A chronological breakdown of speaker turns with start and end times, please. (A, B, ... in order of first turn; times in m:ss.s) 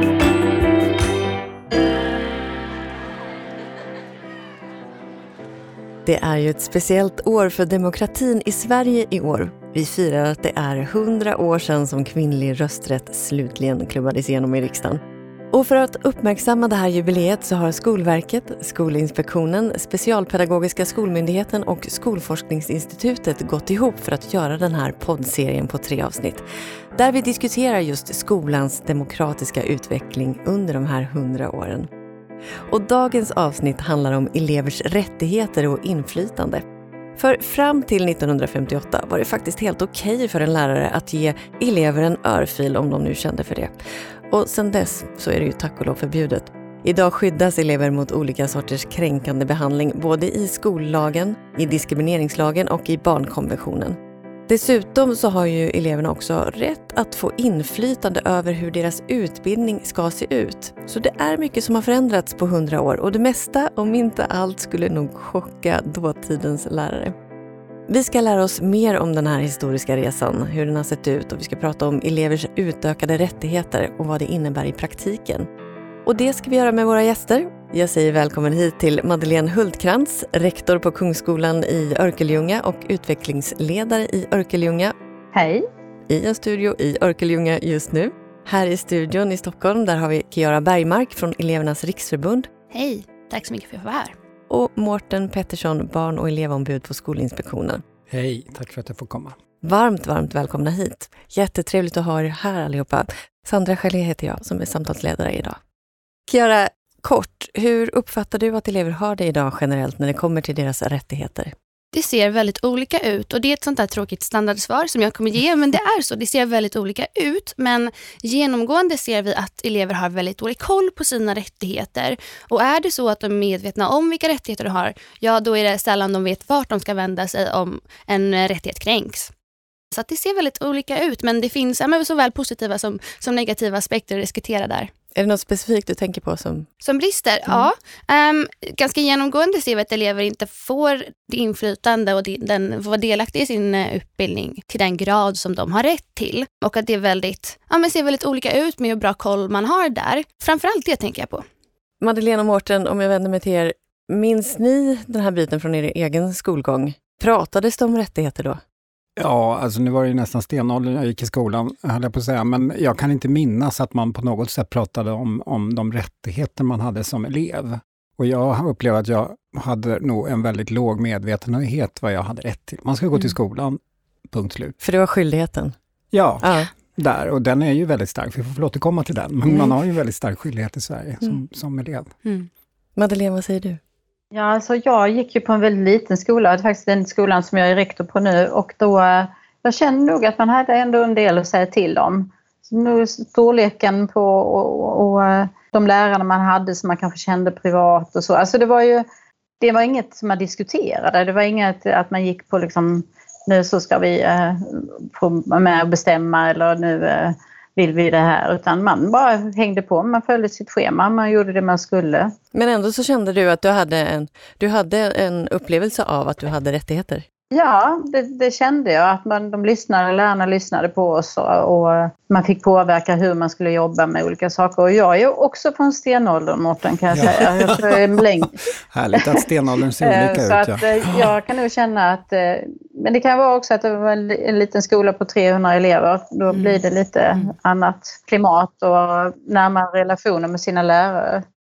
0:06.0-0:31.9 A
0:32.7-0:36.6 A
0:37.2-0:43.7 A
0:44.3-1:07.2 A
1:07.9-1:15.5 A
1:16.0-1:24.9 A
1:25.3-1:25.6 B
1:26.1-1:32.5 A
1:32.7-1:34.2 C
1:34.5-1:37.8 A
1:38.1-1:39.4 D
1:39.6-1:45.6 A
1:46.3-1:51.5 A
1:51.9-2:09.3 C
2:09.9-2:14.9 C
2:15.2-2:16.7 A
2:16.8-2:31.4 C
2:32.0-2:38.6 A
2:39.2-2:54.8 D
2:54.8-2:55.8 A
2:56.1-3:02.1 D
2:56.4-2:56.7 A
2:59.5-2:59.8 A
3:03.0-3:03.8 A
3:04.3-3:19.0 B
3:19.6-3:32.3 B
3:32.5-3:37.2 A
3:37.5-3:48.6 B
3:47.1-3:48.1 D
3:48.9-3:51.3 D
3:50.0-4:01.4 B
3:56.5-3:56.8 C